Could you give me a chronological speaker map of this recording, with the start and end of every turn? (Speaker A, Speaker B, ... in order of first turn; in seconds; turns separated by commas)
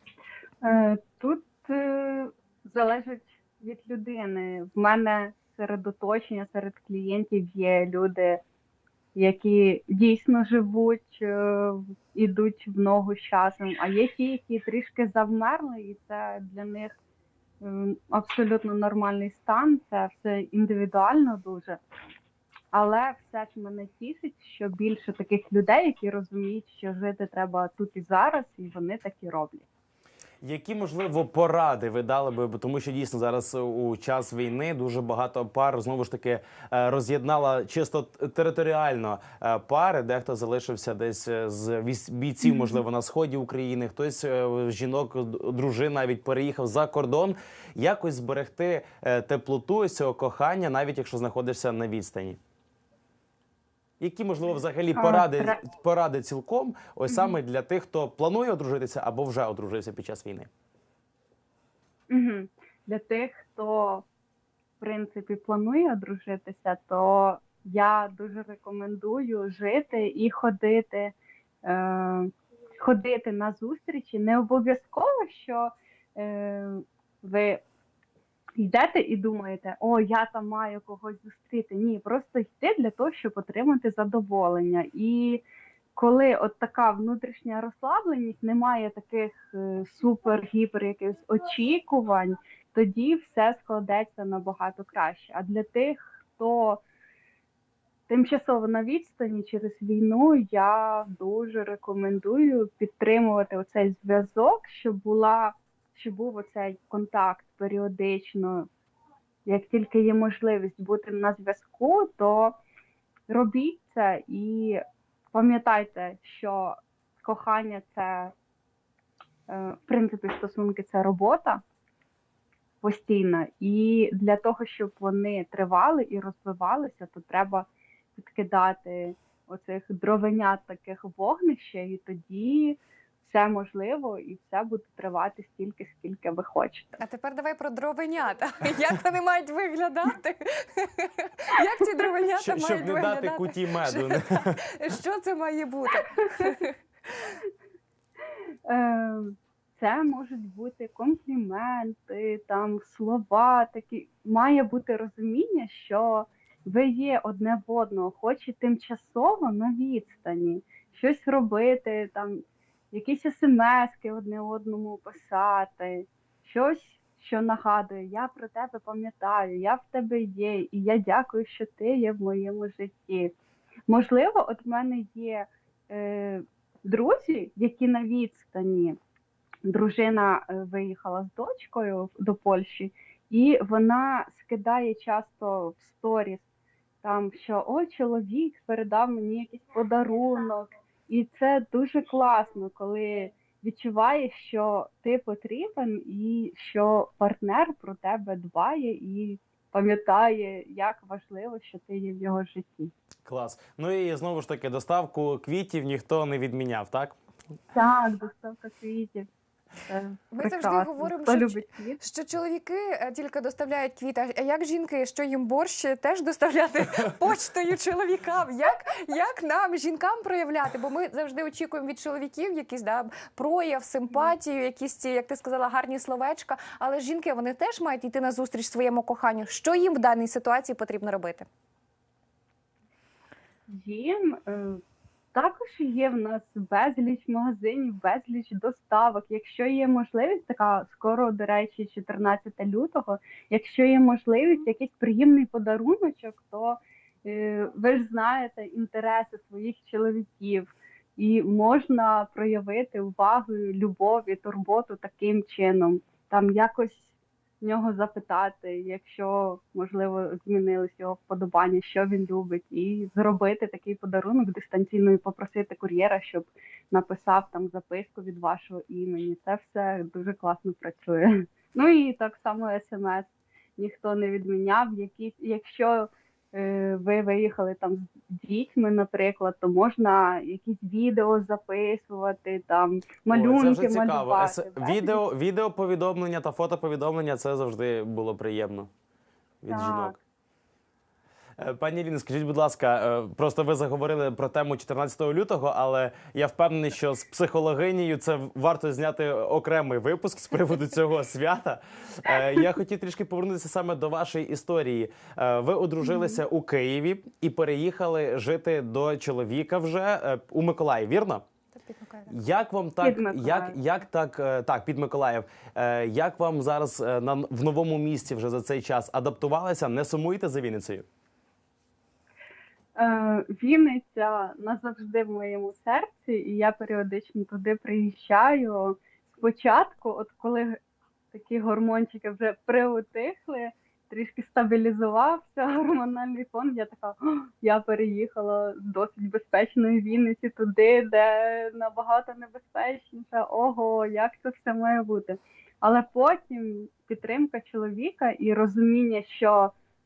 Speaker A: 0.6-8.4, Speaker A: 9.1-16.9, Speaker A: 17.6-21.8, Speaker A: 22.7-29.6, Speaker B: 30.4-52.4, Speaker B: 54.0-60.5, Speaker A: 54.9-55.6, Speaker A: 57.1-57.3, Speaker A: 62.1-64.1, Speaker A: 64.8-77.6, Speaker A: 78.6-85.4, Speaker A: 86.0-96.8, Speaker A: 98.1-108.7, Speaker A: 109.5-112.6, Speaker A: 113.3-114.8, Speaker A: 115.3-118.3, Speaker A: 119.5-121.6, Speaker A: 122.8-137.0, Speaker C: 137.0-146.7, Speaker B: 142.4-144.6, Speaker A: 148.7-173.3, Speaker A: 173.9-179.0, Speaker A: 179.7-186.4, Speaker A: 187.0-202.9, Speaker B: 203.2-207.2, Speaker A: 207.7-209.3, Speaker A: 209.8-212.0, Speaker C: 210.3-231.5, Speaker A: 233.7-234.8, Speaker A: 235.3-285.2, Speaker B: 283.3-288.9, Speaker B: 289.6-290.2, Speaker A: 289.7-290.1, Speaker B: 291.6-311.4, Speaker C: 311.7-312.4, Speaker B: 312.3-321.1, Speaker A: 313.0-313.8, Speaker A: 322.9-330.8, Speaker A: 331.3-349.7